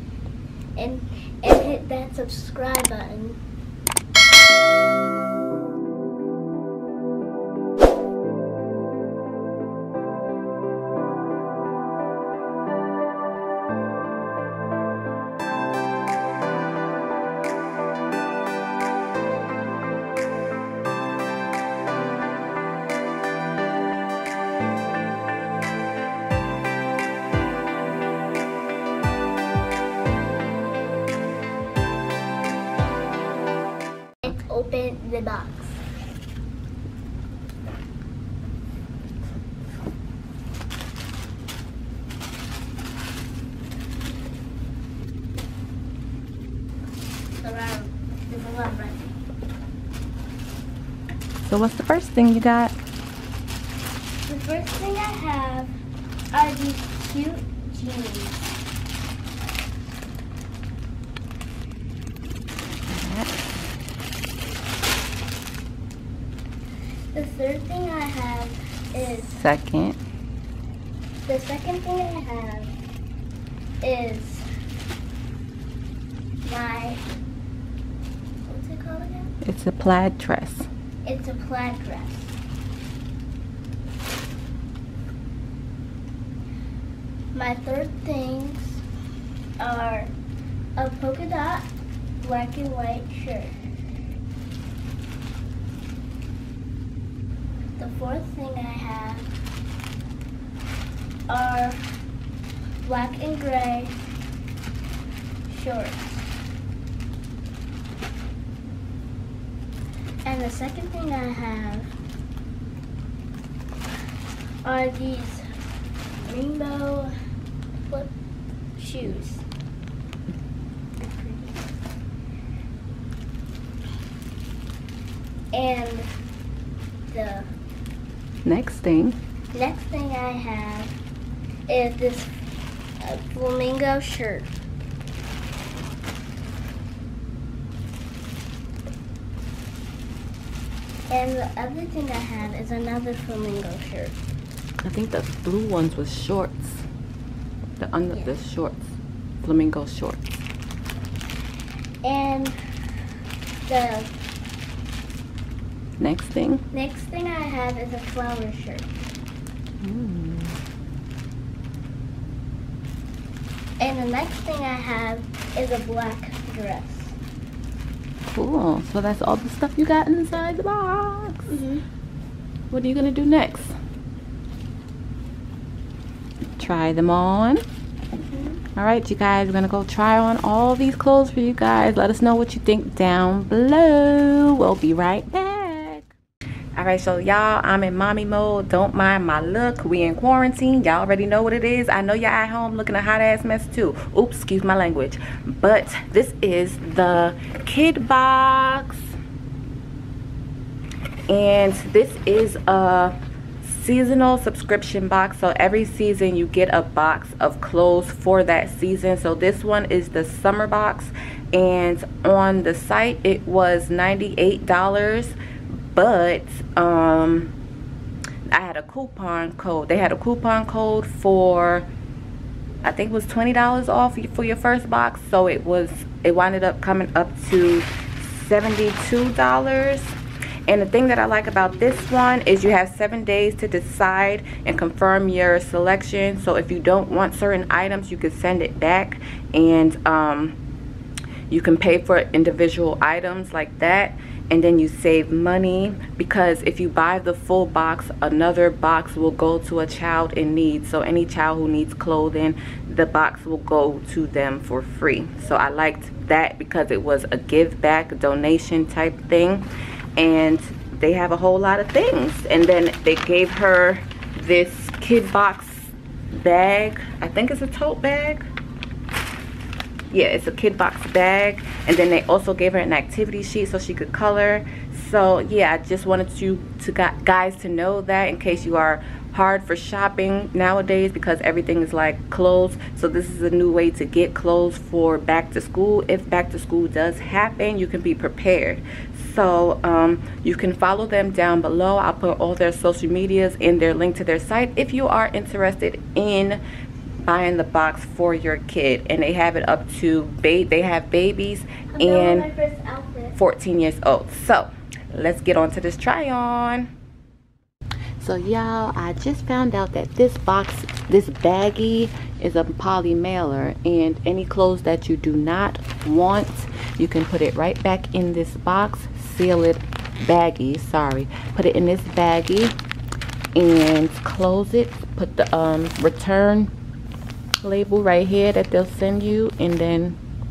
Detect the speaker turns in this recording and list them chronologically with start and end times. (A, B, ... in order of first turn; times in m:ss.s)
0:00.8-0:03.4 A
0:34.2-0:35.8 A
0:47.4-0:49.2 A
0:51.4-0:52.7 B
0:54.3-0:55.7 A
0:56.3-0:58.5 A
1:02.9-1:03.7 B
1:07.1-1:09.3 A
1:09.1-1:10.0 B
1:11.2-1:12.8 A
1:13.8-1:14.4 A
1:16.4-1:17.0 A
1:18.4-1:19.3 A
1:19.4-1:20.7 B
1:21.0-1:22.4 A
1:27.3-1:28.8 A
1:29.6-1:30.1 A
1:30.8-1:31.7 A
1:32.2-1:33.5 A
1:37.8-1:39.3 A
1:41.3-1:41.8 A
1:42.8-1:44.0 A
1:45.5-1:46.0 A
1:50.2-1:51.9 A
1:54.6-1:55.4 A
1:56.2-1:57.1 A
1:57.8-1:58.1 A
1:58.8-1:59.4 A
2:01.0-2:01.6 A
2:05.5-2:06.1 A
2:07.1-2:07.5 A
2:08.4-2:09.2 B
2:09.5-2:10.9 A
2:11.7-2:12.3 A
2:13.0-2:14.5 A
2:21.1-2:24.2 A
2:24.8-2:26.8 B
2:27.8-2:30.4 B
2:28.1-2:28.4 A
2:32.0-2:32.6 A
2:33.6-2:34.1 A
2:36.0-2:36.6 B
2:36.7-2:38.9 A
2:39.8-2:40.6 B
2:43.8-2:47.2 A
2:48.3-2:51.6 B
2:51.5-2:51.8 A
2:52.7-2:53.7 B
2:56.6-2:57.6 B
2:58.3-2:58.6 A
2:58.8-3:06.1 B
3:06.7-3:19.1 B
3:21.3-3:35.3 B
3:35.9-3:37.5 B
3:38.5-3:41.9 B
3:42.8-3:50.1 B
3:50.7-4:00.6 B
4:01.5-4:19.6 B
4:20.2-4:28.4 B
4:30.1-4:56.6 B
4:57.2-5:02.5 B
5:01.9-5:03.4 A
5:03.4-5:06.9 B
5:08.2-5:22.7 B
5:23.5-5:26.7 B
5:27.6-5:30.2 B